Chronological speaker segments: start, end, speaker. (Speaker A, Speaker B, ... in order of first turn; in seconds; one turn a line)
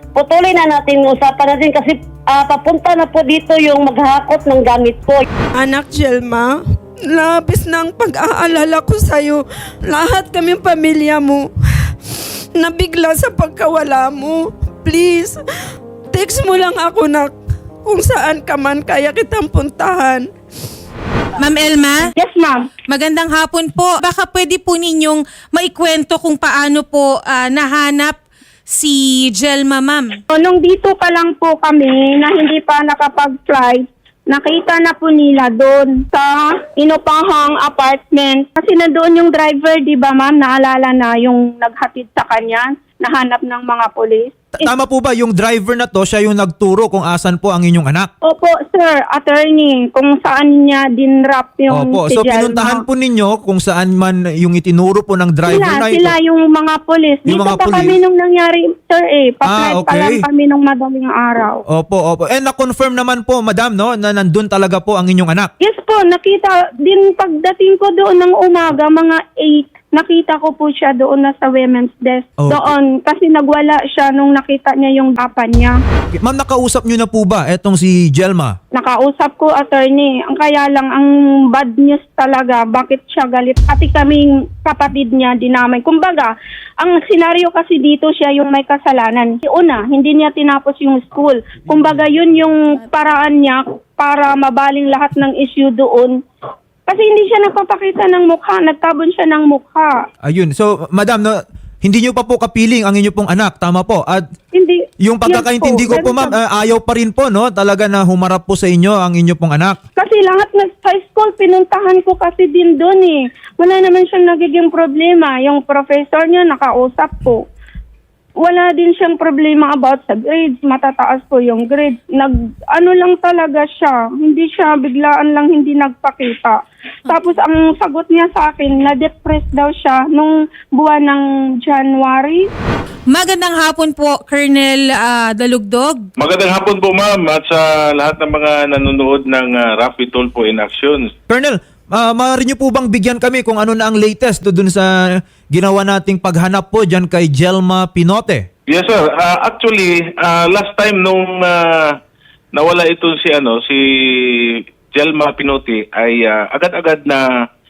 Speaker A: 0.1-5.2
Speaker B: 5.5-15.4
Speaker B: 16.1-20.3
Speaker C: 21.4-22.1
Speaker D: 22.2-22.7
Speaker C: 22.9-30.2
Speaker D: 30.3-44.7
Speaker E: 44.6-48.1
Speaker D: 48.2-52.8
Speaker E: 51.7-56.1
Speaker D: 55.5-61.6
Speaker E: 57.2-57.9
Speaker E: 59.5-60.2
Speaker E: 61.7-65.5
Speaker D: 65.6-75.8
Speaker E: 76.2-78.5
Speaker D: 78.7-96.2
Speaker E: 91.8-92.1
Speaker D: 96.9-99.9
Speaker E: 100.2-104.2
Speaker D: 104.5-106.3
Speaker E: 105.0-109.8
Speaker D: 110.0-117.5
Speaker D: 118.4-132.5
Speaker C: 127.1-127.4
Speaker C: 133.1-136.1
Speaker F: 136.2-141.1
Speaker E: 141.3-148.4
Speaker F: 148.7-152.0
Speaker F: 152.6-157.2